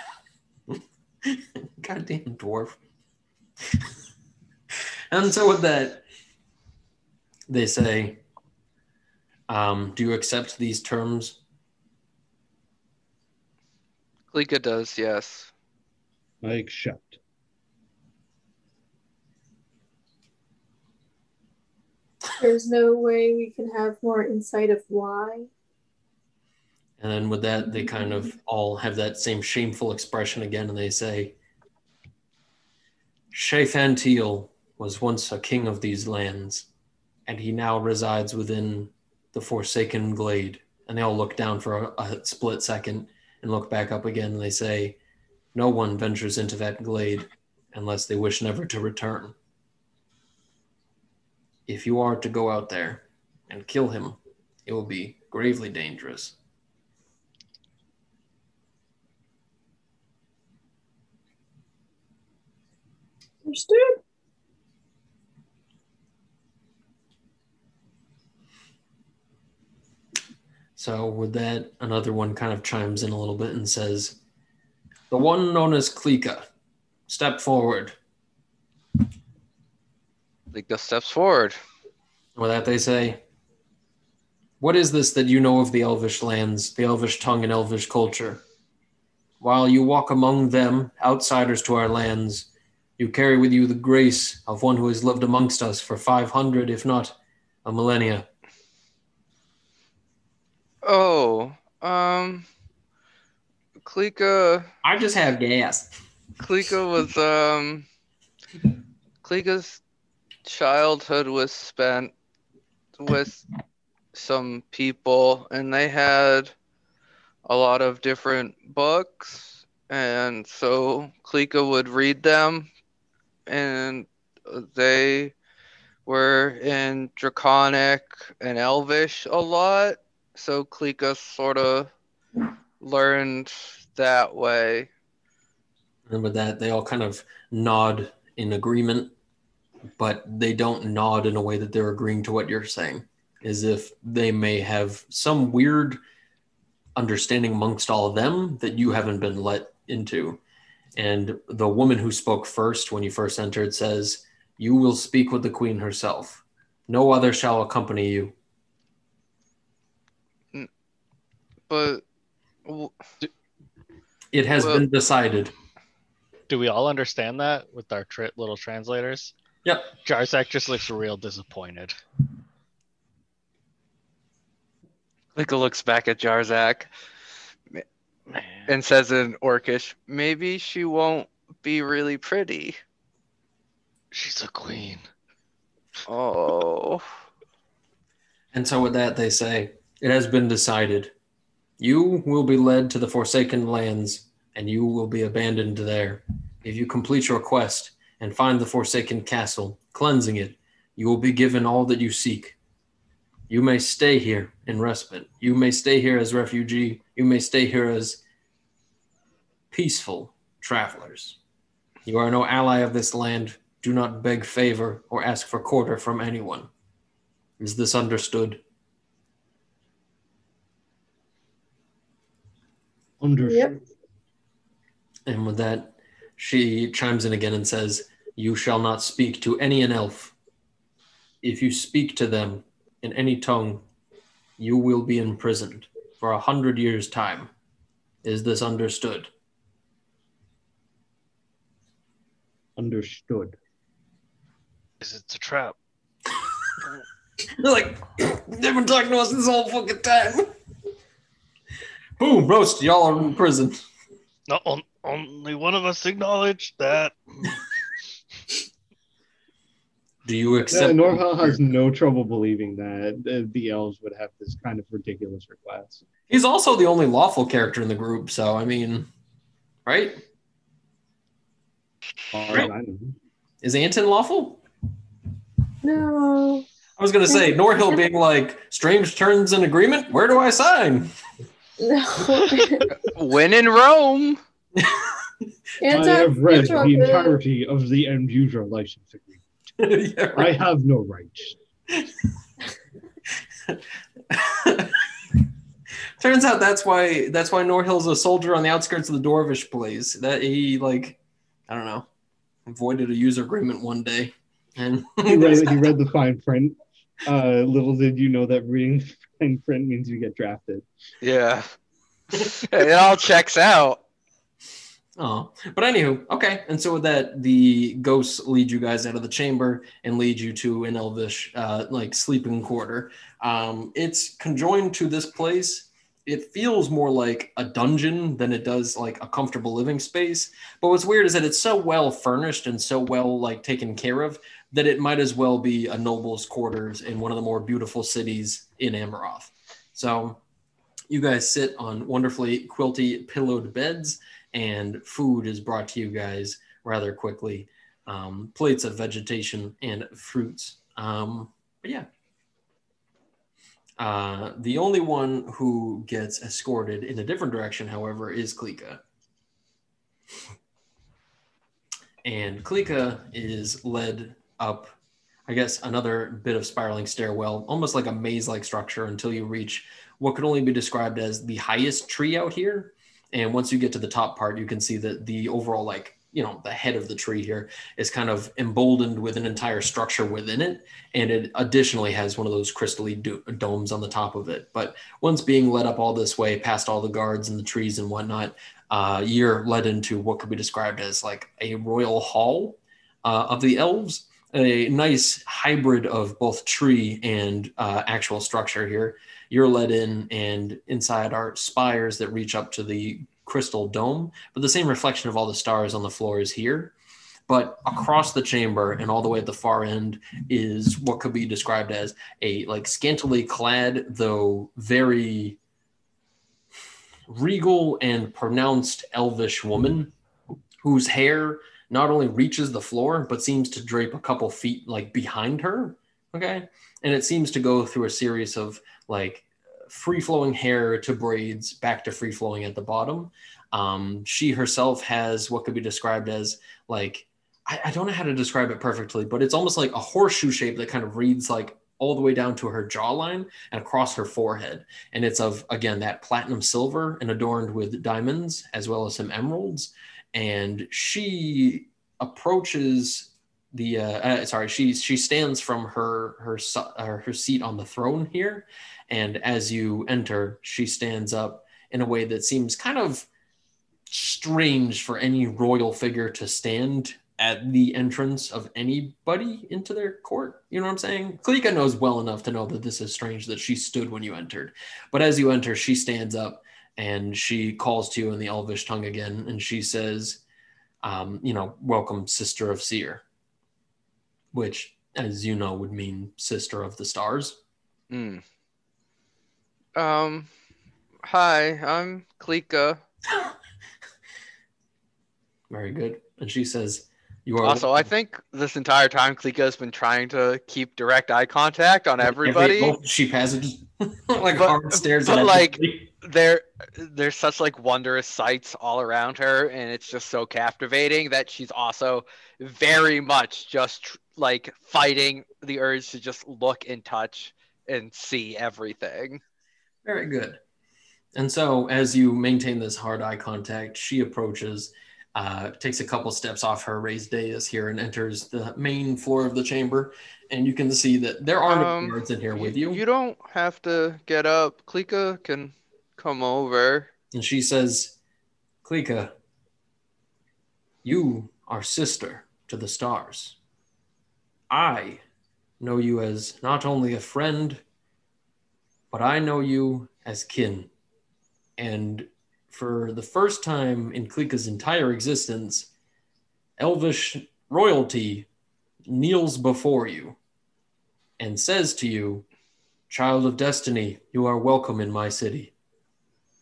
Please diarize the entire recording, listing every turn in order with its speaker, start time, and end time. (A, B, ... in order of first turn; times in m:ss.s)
0:00.7-0:02.8 A
0:05.1-0:06.0 A
0:07.5-0:08.2 A
0:09.5-0:11.4 A
0:14.3-0:15.5 B
0:16.4-0:17.2 C
0:22.4-0:25.5 D
0:27.0-0:31.3 A
0:33.3-0:36.7 A
0:37.3-0:45.0 A
0:45.5-0:49.3 A
0:51.7-0:56.3 A
1:03.4-1:04.0 D
1:10.8-1:14.2 A
1:15.1-1:16.5 A
1:17.1-1:18.0 A
1:20.5-1:21.6 B
1:22.4-1:23.2 A
1:24.6-1:28.4 A
1:29.4-1:38.3 A
1:40.8-1:42.5 B
1:43.8-1:44.7 B
1:44.8-1:45.9 A
1:46.4-1:47.8 B
1:49.2-1:49.8 B
1:50.4-1:52.1 B
1:53.0-1:53.5 B
1:54.1-1:56.5 B
1:57.4-2:02.7 B
2:03.5-2:05.3 B
2:06.0-2:11.9 B
2:12.8-2:14.9 B
2:16.1-2:19.1 A
2:20.0-2:26.0 A
2:27.0-2:30.4 A
2:31.0-2:38.3 A
2:41.7-2:42.0 B
2:42.6-2:43.1 B
2:44.3-2:45.5 A
2:44.6-2:44.8 B
2:46.5-2:49.3 E
2:49.6-2:49.9 A
2:50.0-2:52.0 E
2:55.3-2:56.9 B
2:58.3-2:58.7 E
2:58.7-3:02.8 B
3:04.1-3:05.0 E
3:06.0-3:07.1 B
3:08.5-3:11.1 A
3:11.8-3:22.6 A
3:23.5-3:28.2 A
3:29.7-3:31.4 A
3:32.0-3:36.7 A
3:37.6-3:38.6 A
3:43.2-3:43.8 C
3:43.5-3:43.7 D
3:45.2-3:50.3 A
3:51.4-3:53.8 A
3:54.6-3:57.5 A
3:58.2-3:59.3 A
4:02.8-4:03.6 C
4:05.0-4:05.8 E
4:07.6-4:10.5 A
4:12.2-4:13.8 A
4:14.5-4:17.6 E
4:20.2-4:21.6 A
4:20.7-4:26.0 C
4:26.3-4:29.1 A
4:29.8-4:30.2 A
4:32.3-4:33.2 C
4:33.6-4:34.6 A
4:35.8-4:36.6 D
4:37.0-4:41.1 A
4:37.3-4:38.0 D
4:41.8-4:42.9 D
4:43.1-4:44.4 B
4:44.8-4:45.1 A
4:45.8-4:47.4 D
4:45.8-4:49.5 C
4:49.8-4:50.5 A
4:50.3-4:51.6 C
4:54.3-4:55.4 A
4:56.2-5:02.1 A
5:02.7-5:05.8 A
5:05.2-5:10.9 C
5:11.2-5:11.7 B
5:12.3-5:14.0 B
5:15.2-5:40.4 A
5:41.1-5:52.1 A
5:54.0-5:59.0 A
6:02.2-6:04.9 A
6:05.5-6:46.9 A
6:47.5-6:55.6 A
6:57.3-7:00.1 A
7:00.8-7:43.3 A
7:44.1-8:00.4 A
8:01.0-8:03.2 A
8:04.5-8:07.6 A
8:08.1-8:08.4 B
8:09.9-8:10.5 B
8:11.2-8:13.0 B
8:15.7-8:18.1 A
8:17.6-8:23.0 B
8:22.3-8:26.1 A
8:24.6-8:39.4 B
8:40.0-8:40.6 A
8:41.3-8:53.0 A
8:51.7-8:57.1 B
8:57.3-8:58.2 A
8:58.8-8:59.3 A
9:01.0-9:03.6 A
9:04.7-9:05.2 A
9:05.8-9:07.8 A
9:09.1-9:10.9 A
9:11.8-9:15.9 A
9:16.8-9:18.5 A
9:19.1-9:20.4 A
9:21.4-9:22.4 A
9:23.1-9:25.7 A